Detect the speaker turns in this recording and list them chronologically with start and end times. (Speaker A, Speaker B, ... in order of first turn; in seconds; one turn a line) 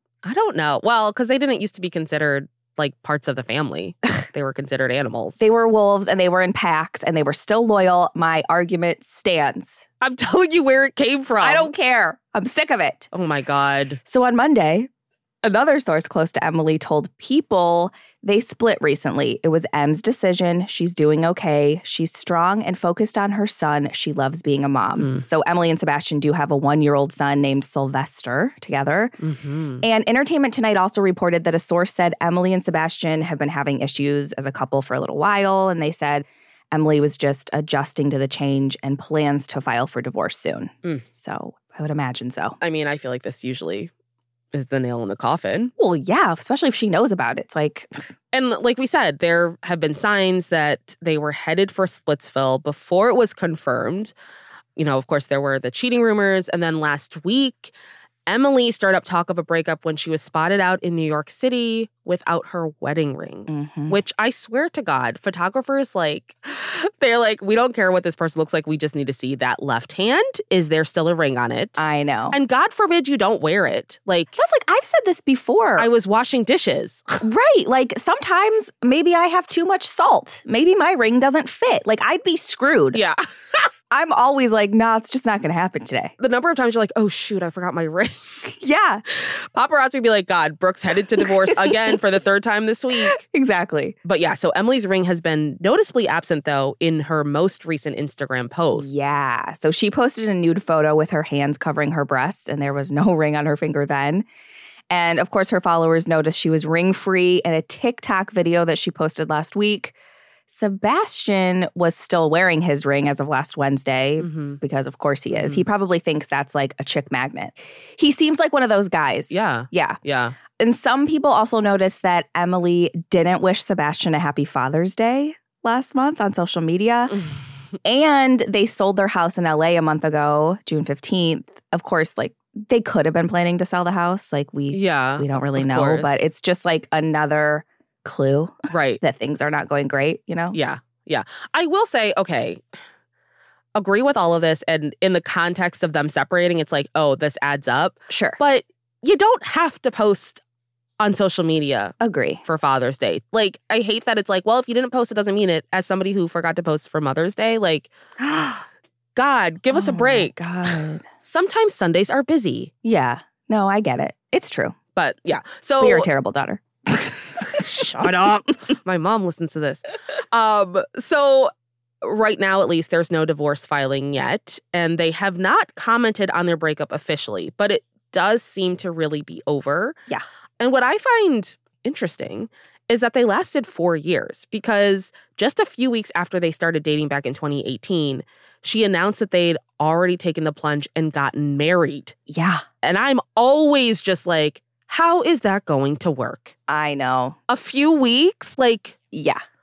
Speaker A: 0.2-5.5
Speaker B: 5.4-9.8
Speaker A: 10.0-11.7
Speaker B: 11.4-13.1
Speaker A: 13.1-14.0
Speaker B: 14.0-14.9
Speaker B: 15.4-29.1
Speaker A: 25.0-25.2
Speaker A: 29.2-29.8
Speaker B: 29.8-42.5
Speaker A: 42.6-43.9
Speaker A: 44.5-45.7
Speaker B: 45.8-48.1
Speaker A: 48.3-54.1
Speaker A: 54.8-57.7
Speaker A: 58.3-74.3
Speaker B: 63.5-64.0
Speaker B: 71.8-72.4
Speaker B: 74.4-75.9
Speaker A: 75.8-77.2
Speaker B: 77.2-83.0
Speaker A: 82.9-83.6
Speaker B: 83.9-86.1
Speaker A: 86.2-88.2
Speaker B: 88.4-89.0
Speaker A: 89.1-93.2
Speaker B: 91.4-91.7
Speaker B: 93.0-94.0
Speaker A: 94.0-99.1
Speaker B: 98.7-104.2
Speaker B: 104.9-109.9
Speaker B: 110.5-120.0
Speaker A: 114.2-114.6
Speaker A: 115.3-115.7
Speaker A: 119.3-120.3
Speaker B: 120.6-127.2
Speaker B: 127.8-140.6
Speaker A: 134.7-136.2
Speaker A: 138.7-139.0
Speaker A: 140.5-142.6
Speaker A: 143.8-150.4
Speaker B: 148.1-148.4
Speaker A: 151.0-157.9
Speaker B: 152.0-152.4
Speaker B: 158.2-158.6
Speaker A: 159.2-162.7
Speaker B: 159.7-161.0
Speaker B: 162.8-164.8
Speaker A: 164.9-166.1
Speaker B: 165.8-167.3
Speaker A: 167.4-171.5
Speaker A: 172.0-180.0
Speaker A: 180.6-192.1
Speaker B: 192.3-192.6
Speaker A: 192.8-196.5
Speaker B: 196.7-197.4
Speaker A: 197.5-198.9
Speaker B: 199.1-199.4